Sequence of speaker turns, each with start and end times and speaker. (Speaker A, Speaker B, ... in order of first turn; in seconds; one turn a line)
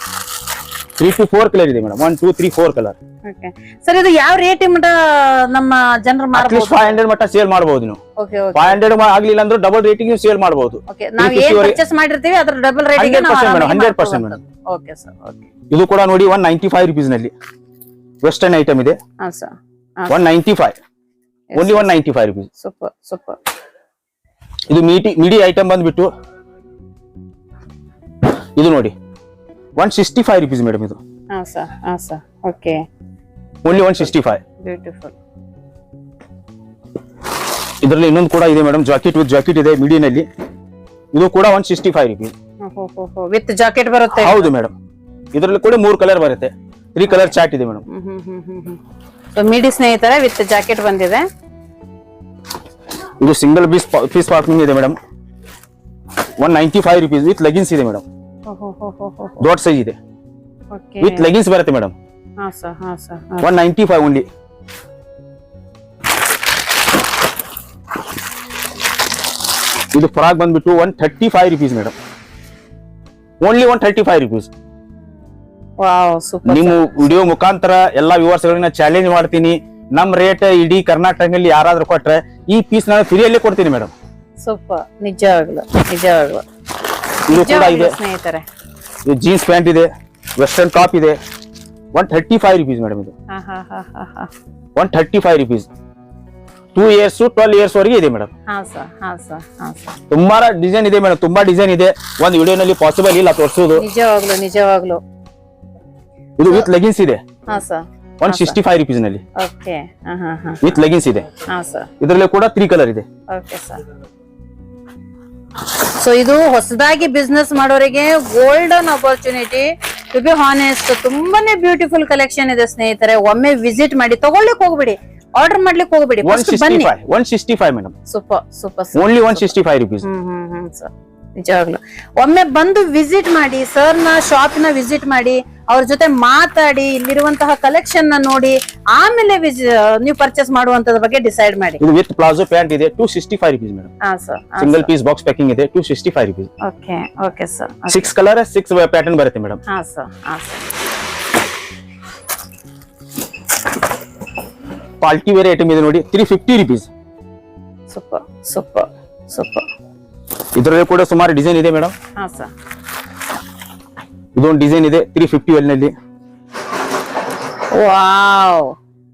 Speaker A: 1.0-3.0
Speaker B: 3.2-7.0
Speaker A: 6.3-8.0
Speaker B: 8.2-8.8
Speaker A: 8.6-11.8
Speaker B: 10.9-15.5
Speaker A: 13.0-14.4
Speaker A: 15.7-17.3
Speaker A: 18.2-19.0
Speaker B: 19.2-20.2
Speaker A: 20.1-20.8
Speaker B: 21.5-21.9
Speaker A: 21.6-22.5
Speaker B: 22.6-23.4
Speaker A: 24.7-26.1
Speaker A: 28.6-28.9
Speaker A: 29.8-31.0
Speaker B: 31.3-32.8
Speaker A: 33.6-34.4
Speaker B: 34.6-35.2
Speaker A: 37.8-40.3
Speaker A: 41.1-42.3
Speaker B: 42.6-44.5
Speaker A: 44.2-44.7
Speaker A: 45.3-47.9
Speaker B: 47.1-47.4
Speaker B: 47.9-48.8
Speaker B: 49.3-51.3
Speaker A: 53.2-55.0
Speaker A: 56.4-58.0
Speaker B: 58.5-59.5
Speaker A: 59.4-60.0
Speaker B: 60.7-61.3
Speaker A: 61.0-62.0
Speaker B: 62.4-63.5
Speaker A: 63.4-64.3
Speaker A: 69.9-72.0
Speaker A: 73.4-74.5
Speaker B: 75.8-77.0
Speaker A: 76.5-83.9
Speaker B: 84.4-86.4
Speaker A: 87.3-88.0
Speaker B: 87.3-88.5
Speaker A: 89.0-91.2
Speaker A: 91.9-93.1
Speaker B: 93.3-94.3
Speaker A: 94.8-95.7
Speaker A: 96.7-98.3
Speaker B: 98.5-100.0
Speaker A: 100.1-103.9
Speaker B: 103.8-105.0
Speaker A: 106.4-107.2
Speaker B: 107.5-108.6
Speaker A: 108.2-109.2
Speaker B: 109.4-110.8
Speaker A: 110.6-111.3
Speaker B: 111.5-111.9
Speaker A: 112.0-113.0
Speaker B: 113.3-113.8
Speaker B: 116.0-126.9
Speaker A: 126.2-127.9
Speaker B: 128.1-129.5
Speaker A: 129.0-130.1
Speaker B: 130.0-141.8
Speaker A: 141.8-143.9
Speaker B: 144.0-144.9
Speaker A: 144.6-146.5
Speaker B: 146.6-148.1
Speaker A: 147.9-149.6
Speaker B: 149.7-150.7
Speaker A: 155.0-156.9
Speaker B: 157.9-159.7
Speaker A: 160.6-161.9
Speaker B: 162.2-162.5
Speaker A: 164.4-165.9
Speaker B: 167.7-168.8